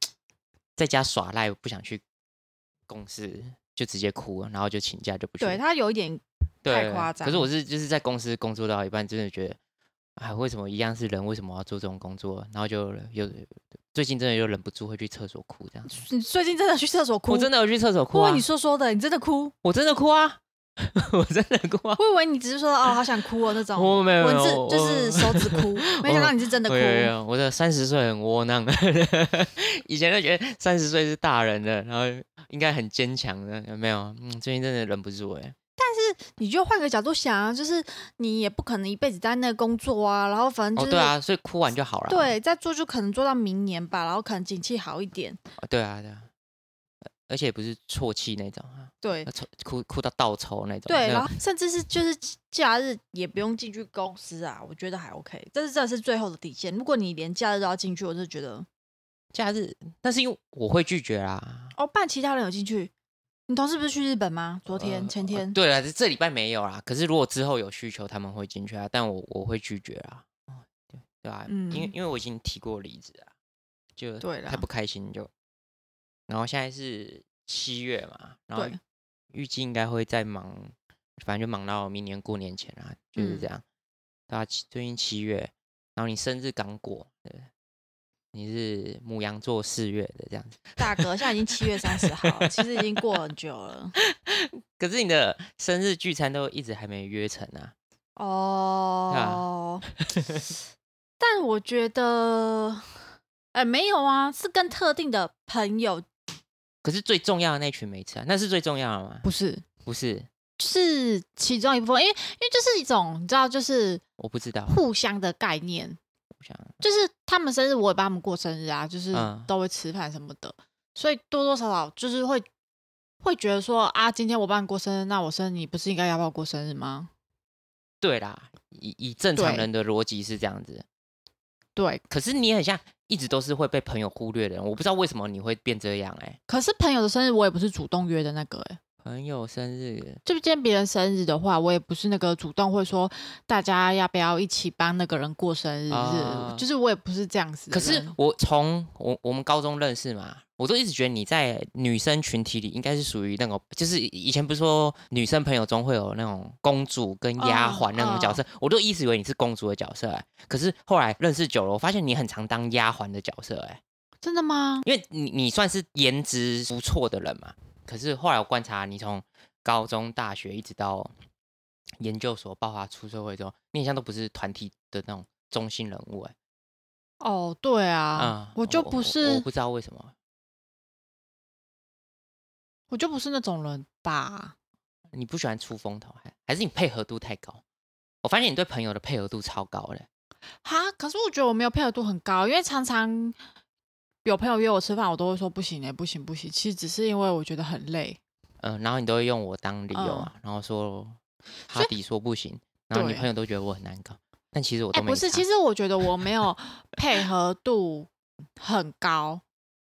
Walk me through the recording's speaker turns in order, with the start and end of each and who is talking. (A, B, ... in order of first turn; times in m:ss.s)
0:00.8-0:02.0 A
0:02.9-0:05.6 A
0:05.4-0:07.5 B
0:06.6-0:09.6 A
0:10.2-0:16.0 A
0:15.9-0:17.5 B
0:17.3-0:18.4 A
0:18.1-0:19.5 B
0:19.6-0:22.0 A
0:22.0-0:27.1 B
0:23.7-0:35.6 A
0:35.8-0:41.1 B
0:40.8-0:42.3 A
0:42.1-0:45.4 B
0:45.6-0:46.3 A
0:47.3-0:51.3 A
0:49.0-0:49.3 B
0:50.9-0:58.7 B
0:59.3-1:01.7 A
1:01.8-1:02.9 B
1:03.5-1:05.6 B
1:04.6-1:10.6 A
1:11.1-1:13.3 A
1:11.5-1:11.9 B
1:14.0-1:15.3 A
1:14.2-1:14.6 B
1:16.3-1:18.8 A
1:19.3-1:23.6 A
1:23.2-1:23.5 B
1:24.3-1:27.5 A
1:28.3-1:32.8 A
1:30.8-1:34.0 B
1:34.0-1:37.7 A
1:38.2-1:39.9 B
1:39.1-1:39.4 A
1:40.0-1:40.5 A
1:41.2-1:42.8 B
1:43.5-1:46.0 B
1:46.8-1:49.2 A
1:49.2-1:49.6 B
1:49.8-1:50.3 A
1:50.6-1:54.0 B
1:54.2-1:54.8 A
1:54.7-1:56.0 B
1:56.4-1:56.8 A
1:56.8-2:02.4 B
1:59.1-1:59.5 A
2:03.2-2:07.1 B
2:08.0-2:10.8 A
2:09.3-2:09.7 B
2:11.8-2:12.0 B
2:12.1-2:16.4 A
2:16.5-2:18.8 B
2:19.0-2:20.2 A
2:20.2-2:28.1 B
2:25.9-2:26.6 A
2:27.7-2:43.8 A
2:37.4-2:38.4 B
2:44.2-2:44.8 B
2:44.8-2:51.1 A
2:52.0-2:56.3 A
2:57.2-2:59.4 B
2:58.2-3:00.1 A
3:02.9-3:04.5 B
3:05.1-3:07.6 A
3:08.2-3:10.1 A
3:10.6-3:13.4 B
3:14.2-3:18.2 B
3:18.6-3:25.4 A
3:19.9-3:20.3 B
3:22.9-3:23.3 B
3:24.9-3:29.4 B